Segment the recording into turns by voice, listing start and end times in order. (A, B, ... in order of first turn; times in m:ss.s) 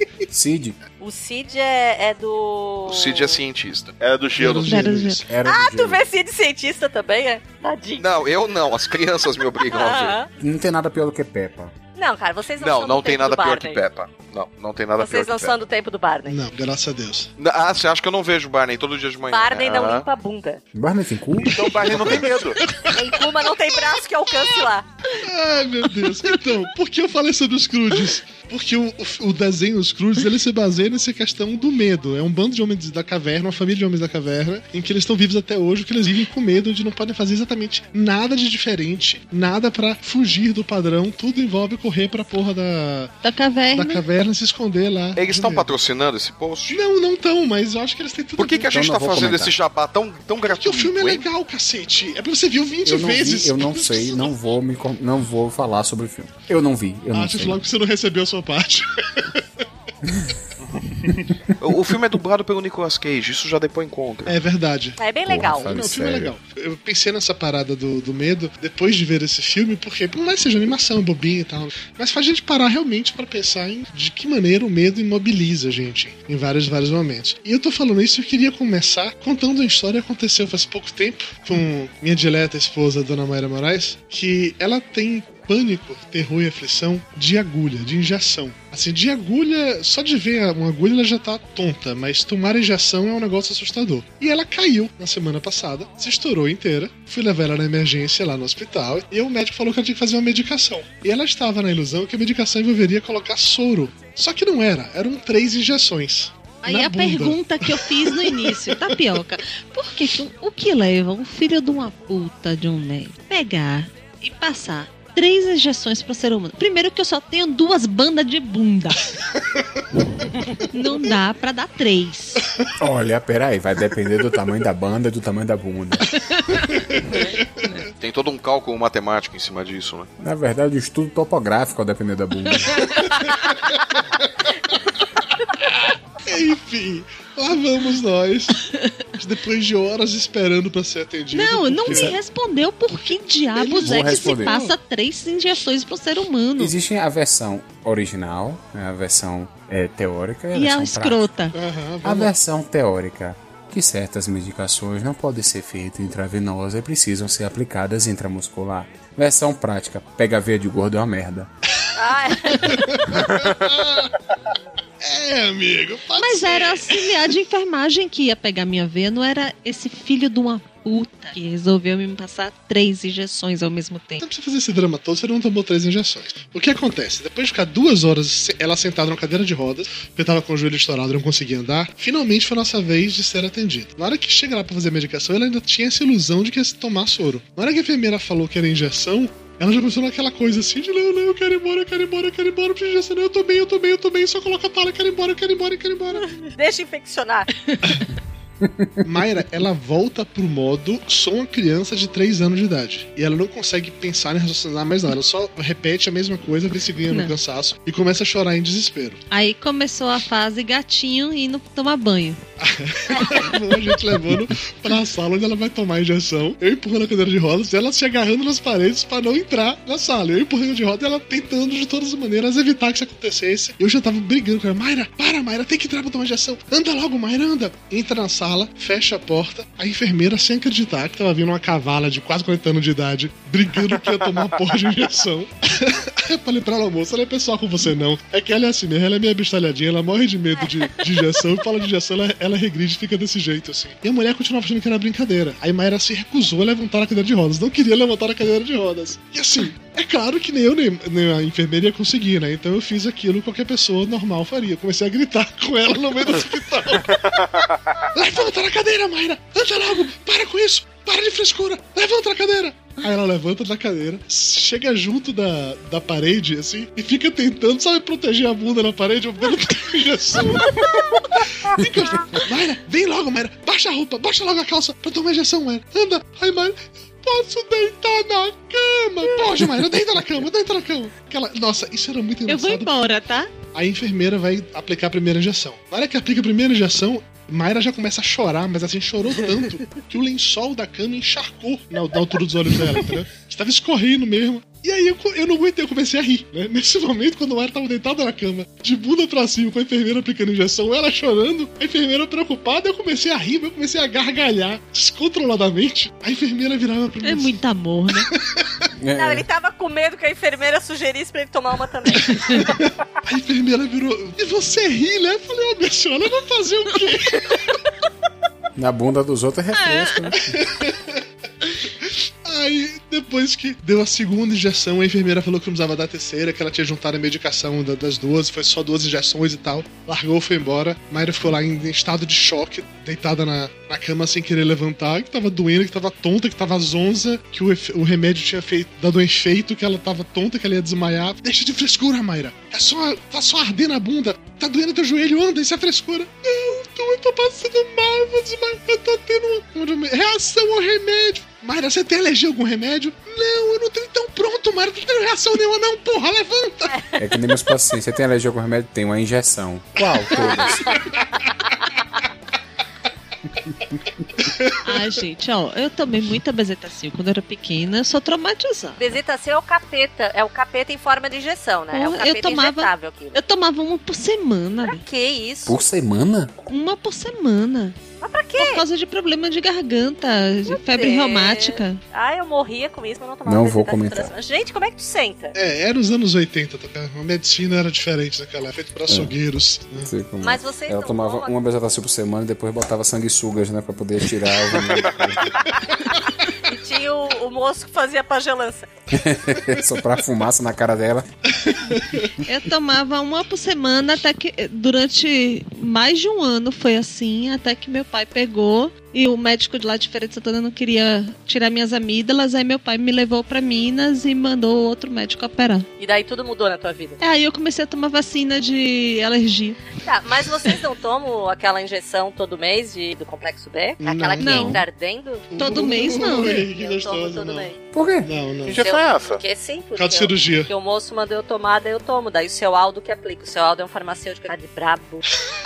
0:00.3-0:00.8 A
0:01.0-0:03.4 B
0:02.9-0:04.0 C
0:04.0-0:04.8 D
0:04.4-0:05.2 E
0:04.6-0:05.2 F
0:05.2-0:06.0 A
0:05.4-0:08.1 B
0:08.0-0:10.2 C
0:09.7-0:10.3 B
0:10.4-0:11.7 A
0:12.0-0:13.8 B
0:12.6-0:15.6 C
0:15.0-0:16.4 B
0:16.2-0:17.3 E
0:17.4-0:20.1 C
0:19.3-0:20.6 B
0:20.7-0:22.2 A
0:21.4-0:22.6 D
0:22.6-0:22.9 E
0:22.9-0:24.9 B
0:25.1-0:43.1 E
0:26.0-0:26.3 F
0:43.2-0:44.0 F
0:43.7-0:45.7 E
0:45.2-0:46.8 C
0:46.7-0:48.8 E
0:48.4-0:51.2 C
0:48.6-0:49.6 A
0:50.5-0:54.3 E
0:52.8-0:57.6 A
0:57.1-0:59.4 E
1:01.6-1:04.4 C
1:04.2-1:05.0 E
1:05.0-1:05.7 B
1:05.3-1:06.3 A
1:05.5-1:49.0 E
1:46.6-1:59.0 F
2:00.7-2:02.4 F
2:02.8-2:06.1 A
2:06.9-2:07.8 E
2:08.0-2:10.1 C
2:10.2-2:13.0 A
2:13.0-2:13.6 E
2:15.6-2:18.6 E
2:19.2-2:22.2 E
2:21.3-2:26.7 F
2:21.9-2:22.1 A
2:23.5-2:24.7 E
2:23.7-2:24.6 A
2:26.6-2:31.3 A
2:30.5-2:31.6 F
2:31.5-2:32.3 E
2:32.0-2:41.5 A
2:41.9-2:42.8 B
2:42.5-2:44.1 E
2:45.0-2:47.1 E
2:46.2-2:54.2 F
2:54.2-3:16.3 E
3:16.5-3:17.5 B
3:17.7-3:18.0 F
3:18.6-3:18.9 A
3:19.0-3:29.2 E
3:27.1-3:27.3 F
3:29.3-3:32.4 F
3:32.6-4:17.4 E
3:33.1-3:33.6 F
4:18.1-4:43.0 E
4:42.4-4:43.5 F
4:43.7-5:07.5 E
5:07.2-5:08.3 F
5:08.3-5:08.8 E
5:09.0-5:09.4 A
5:09.1-5:12.8 B
5:12.4-5:17.7 E
5:18.8-5:20.6 A
5:19.7-5:20.3 F
5:20.4-5:21.2 E
5:22.0-5:57.0 E
5:57.2-6:01.0 A
6:00.4-6:01.4 B
6:04.4-6:04.8 E
6:04.8-6:09.0 F
6:09.0-6:13.4 B
6:11.9-6:15.0 F
6:14.8-6:15.8 B
6:15.6-6:16.5 A
6:16.7-6:18.0 F
6:18.2-6:18.8 B
6:18.6-6:22.0 F
6:20.6-6:25.6 B
6:23.4-6:24.3 A
6:25.5-6:30.1 E
6:30.0-6:35.6 A
6:30.4-6:31.5 B
6:36.5-6:38.9 B
6:39.1-6:41.6 A
6:41.6-6:42.3 E
6:42.4-6:55.8 F
6:56.0-6:57.2 B
6:57.2-6:59.8 F
7:00.0-7:05.5 B
7:04.0-7:04.7 E
7:04.4-7:04.8 F
7:05.5-7:07.7 E
7:05.6-7:06.7 F
7:06.5-7:07.8 B
7:07.9-7:08.3 A
7:08.2-7:08.8 E
7:08.7-7:09.4 D
7:08.8-7:15.2 B
7:10.0-7:10.7 E